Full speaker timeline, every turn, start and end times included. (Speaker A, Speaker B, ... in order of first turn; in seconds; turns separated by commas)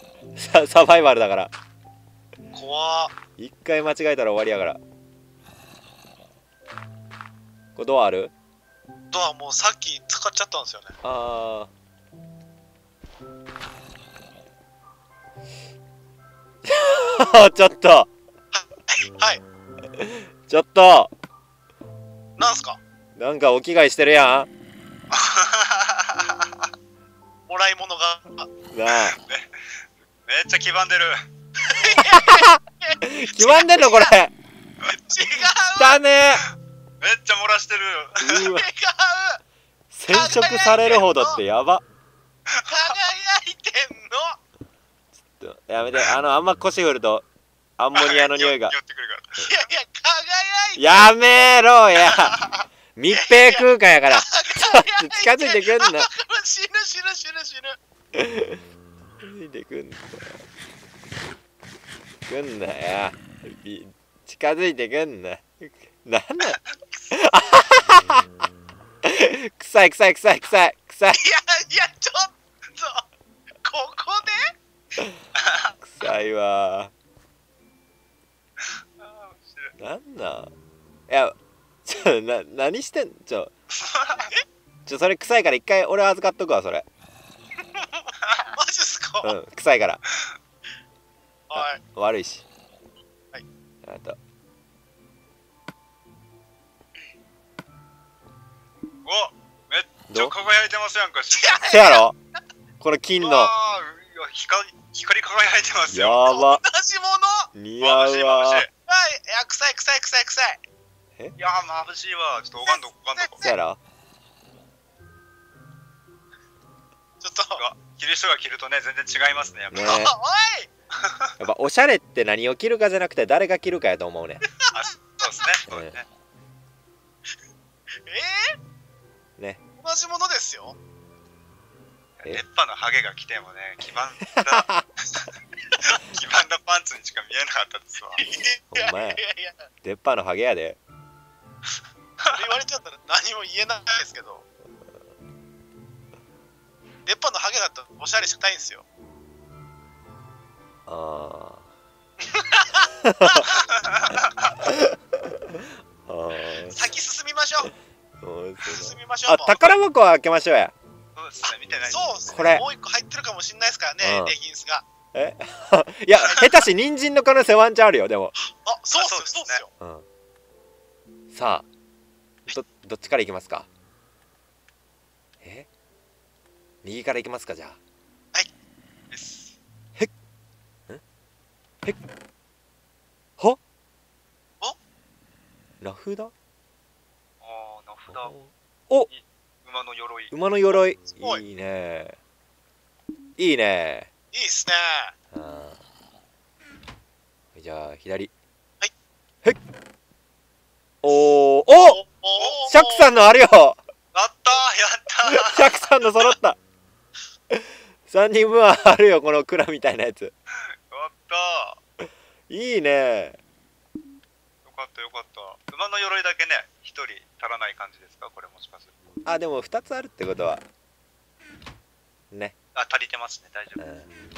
Speaker A: 0.3-1.5, Speaker B: 2.5-3.1, Speaker A: 3.4-4.8, Speaker A: 7.8-8.3, Speaker B: 9.1-10.9, Speaker A: 11.0-11.7, Speaker A: 16.7-18.1, Speaker B: 18.5-19.4, Speaker A: 19.9-21.1, Speaker B: 22.4-22.8, Speaker A: 23.2-24.5, Speaker C: 25.1-26.7, Speaker B: 27.5-28.5, Speaker A: 28.7-29.2, Speaker C: 29.1-29.5, Speaker C: 30.2-31.2, Speaker B: 31.6-34.1, Speaker A: 31.9-34.3, Speaker B: 34.9-36.0, Speaker A: 35.8-36.4, Speaker C: 37.0-38.4, Speaker A: 38.2-38.6, Speaker B: 38.3-39.4, Speaker A: 39.9-41.8, Speaker B: 40.1-41.4, Speaker C: 42.5-42.9, Speaker B: 42.7-44.4, Speaker A: 45.3-47.2, Speaker A: 47.8-48.8, Speaker C: 48.0-49.5, Speaker B: 49.4-51.0, Speaker A: 50.8-52.4, Speaker C: 52.0-52.6, Speaker A: 53.0-56.1, Speaker B: 53.1-57.8, Speaker A: 58.1-58.6, Speaker A: 59.2-60.4, Speaker A: 62.3-66.6, Speaker A: 67.1-68.2, Speaker A: 69.0-71.2, Speaker B: 71.2-73.0, Speaker B: 73.6-74.5, Speaker C: 75.3-75.7, Speaker A: 75.8-76.9, Speaker C: 79.0-79.7, Speaker A: 79.8-80.5, Speaker A: 81.1-83.5, Speaker C: 83.8-84.3, Speaker A: 84.8-86.8, Speaker B: 87.8-89.3, Speaker C: 88.2-88.5, Speaker A: 89.2-90.0, Speaker B: 91.5-91.8, Speaker A: 91.5-92.4, Speaker A: 93.8-94.2, Speaker C: 99.0-101.7, Speaker A: 100.1-100.3, Speaker B: 101.3-102.0, Speaker A: 101.6-102.2, Speaker A: 102.8-103.5, Speaker C: 103.2-106.2, Speaker A: 105.9-106.6, Speaker B: 106.2-107.5, Speaker A: 107.5-108.7, Speaker C: 107.8-108.7, Speaker B: 108.9-110.6, Speaker C: 111.4-113.5, Speaker B: 112.6-113.5, Speaker A: 113.4-113.8, Speaker B: 117.2-117.6, Speaker C: 117.5-120.0, Speaker A: 119.7-120.1, Speaker B: 119.7-120.7, Speaker C: 121.0-121.3, Speaker A: 121.4-124.4, Speaker C: 124.7-126.0, Speaker A: 125.7-126.0, Speaker B: 128.1-128.6, Speaker B: 129.8-130.8, Speaker C: 132.2-135.2, Speaker A: 134.3-134.9, Speaker C: 135.8-138.2, Speaker B: 138.2-139.6, Speaker A: 138.7-139.2, Speaker A: 139.8-140.8, Speaker B: 142.3-144.4, Speaker B: 147.1-148.8, Speaker A: 150.9-151.7, Speaker B: 152.2-153.5, Speaker A: 153.0-153.5, Speaker C: 153.5-154.6, Speaker A: 154.6-156.9, Speaker B: 156.7-157.7, Speaker A: 158.2-160.7, Speaker B: 158.7-159.7, Speaker C: 161.2-162.3, Speaker B: 161.9-164.8, Speaker A: 162.3-162.6, Speaker A: 164.0-164.3, Speaker A: 165.1-168.3, Speaker B: 168.5-169.7, Speaker C: 168.9-169.6, Speaker A: 169.8-170.1, Speaker A: 171.3-171.7, Speaker A: 172.5-173.7, Speaker A: 175.4-175.7, Speaker A: 176.8-177.8, Speaker C: 179.1-179.6, Speaker A: 185.8-186.3, Speaker C: 187.4-188.3, Speaker A: 188.1-189.1, Speaker C: 189.1-190.3, Speaker A: 190.3-192.2, Speaker B: 191.1-191.4, Speaker A: 193.4-194.1, Speaker B: 194.3-195.1, Speaker A: 195.3-195.8, Speaker A: 197.6-198.3, Speaker A: 201.0-202.0, Speaker B: 201.8-203.1, Speaker C: 202.4-202.7, Speaker A: 202.7-203.8, Speaker C: 204.1-205.7, Speaker A: 205.3-206.6, Speaker A: 207.5-210.3, Speaker C: 210.9-211.8, Speaker A: 212.5-213.4, Speaker C: 214.7-219.0, Speaker A: 219.2-220.7, Speaker C: 222.8-223.8, Speaker A: 223.8-224.1